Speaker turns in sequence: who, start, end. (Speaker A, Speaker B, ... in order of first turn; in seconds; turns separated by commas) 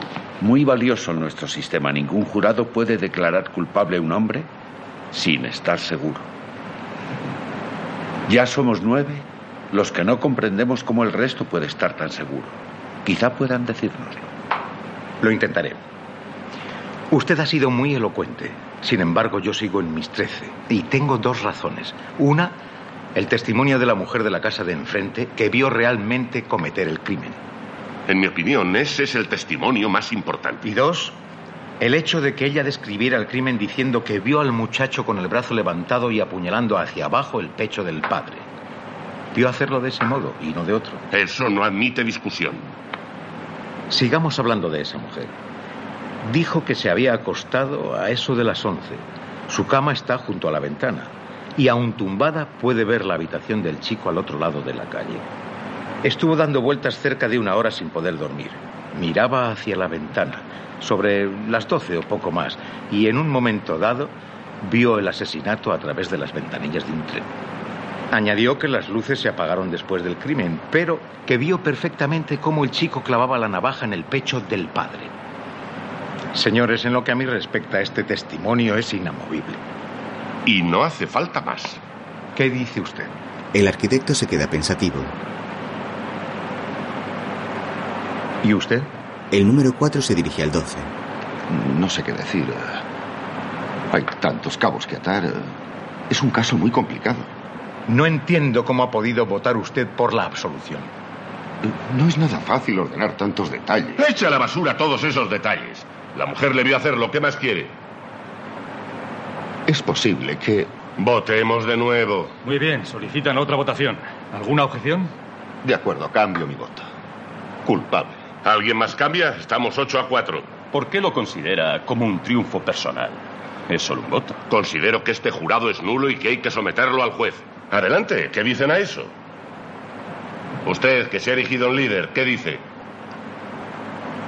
Speaker A: 0.4-4.5, Speaker A: 5.1-6.3, Speaker A: 8.3-14.3, Speaker B: 15.2-15.8, Speaker B: 17.1-22.6, Speaker B: 23.1-27.4, Speaker C: 28.1-30.7, Speaker B: 30.6-31.2, Speaker B: 31.8-38.5, Speaker B: 39.3-41.0, Speaker C: 41.1-42.6, Speaker B: 43.9-45.3, Speaker B: 46.2-55.3, Speaker B: 56.0-67.3, Speaker B: 68.1-75.1, Speaker B: 76.3-79.6, Speaker C: 80.5-81.8, Speaker B: 82.3-83.1, Speaker D: 83.5-85.1, Speaker B: 88.4-88.9, Speaker D: 89.3-90.9, Speaker E: 91.5-92.8, Speaker E: 93.9-95.5, Speaker E: 96.1-97.3, Speaker B: 97.9-100.9, Speaker E: 101.6-104.0, Speaker C: 104.0-107.8, Speaker E: 109.7-110.7, Speaker C: 111.0-112.3, Speaker F: 112.4-115.1, Speaker E: 115.6-116.9, Speaker E: 117.7-118.2, Speaker C: 118.4-120.5, Speaker G: 120.7-124.4, Speaker C: 124.5-129.1, Speaker C: 130.7-132.6